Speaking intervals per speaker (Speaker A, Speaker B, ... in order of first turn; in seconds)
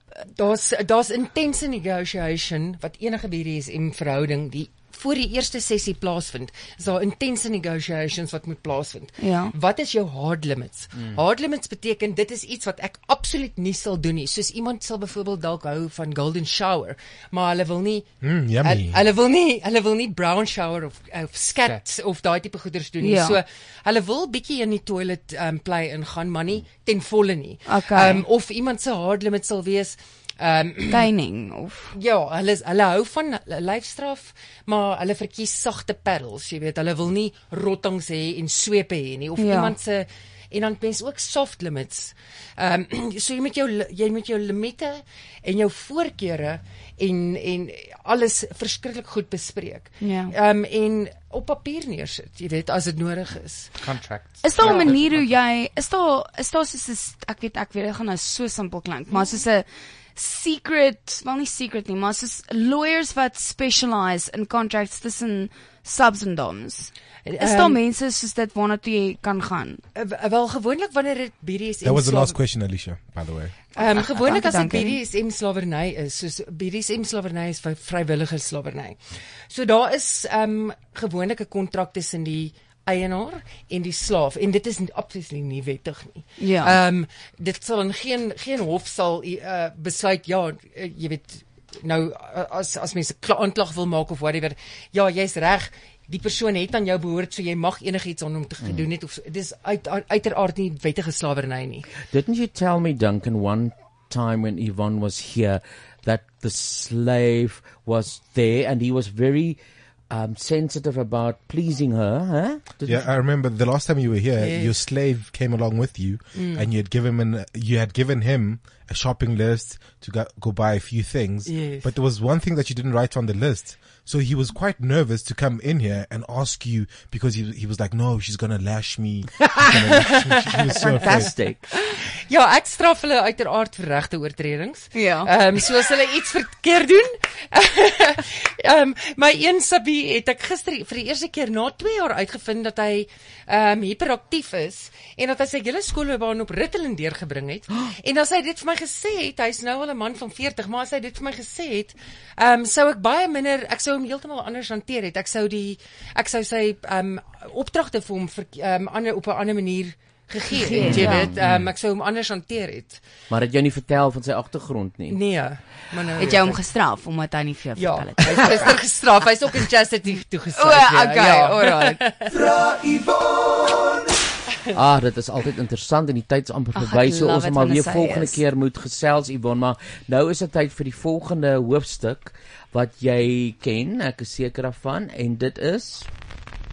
Speaker A: 0.4-18.1, 18.6-31.1, 31.9-53.7, 67.2-67.8, 70.0-72.4, 73.8-79.0, 79.5-101.9, 114.4-114.8, 116.3-116.7, 121.5-121.9, 129.7-131.2, 131.8-163.0, 165.1-166.6, 167.8-172.6
Speaker B: 9.2-9.5, 23.0-23.4, 27.7-28.3, 30.9-31.9, 39.4-39.8, 50.0-50.4, 54.4-69.8, 73.8-75.0, 86.4-86.8, 134.9-135.3, 160.5-161.3, 166.2-168.8, 170.6-172.1, 176.8-178.4
Speaker C: 18.2-19.0, 71.8-73.6, 112.8-131.3
Speaker D: 53.8-55.4, 161.4-161.7
Speaker E: 98.6-98.9, 102.0-109.6, 110.1-113.1, 131.0-131.7, 160.8-161.5, 163.3-165.2, 174.7-186.1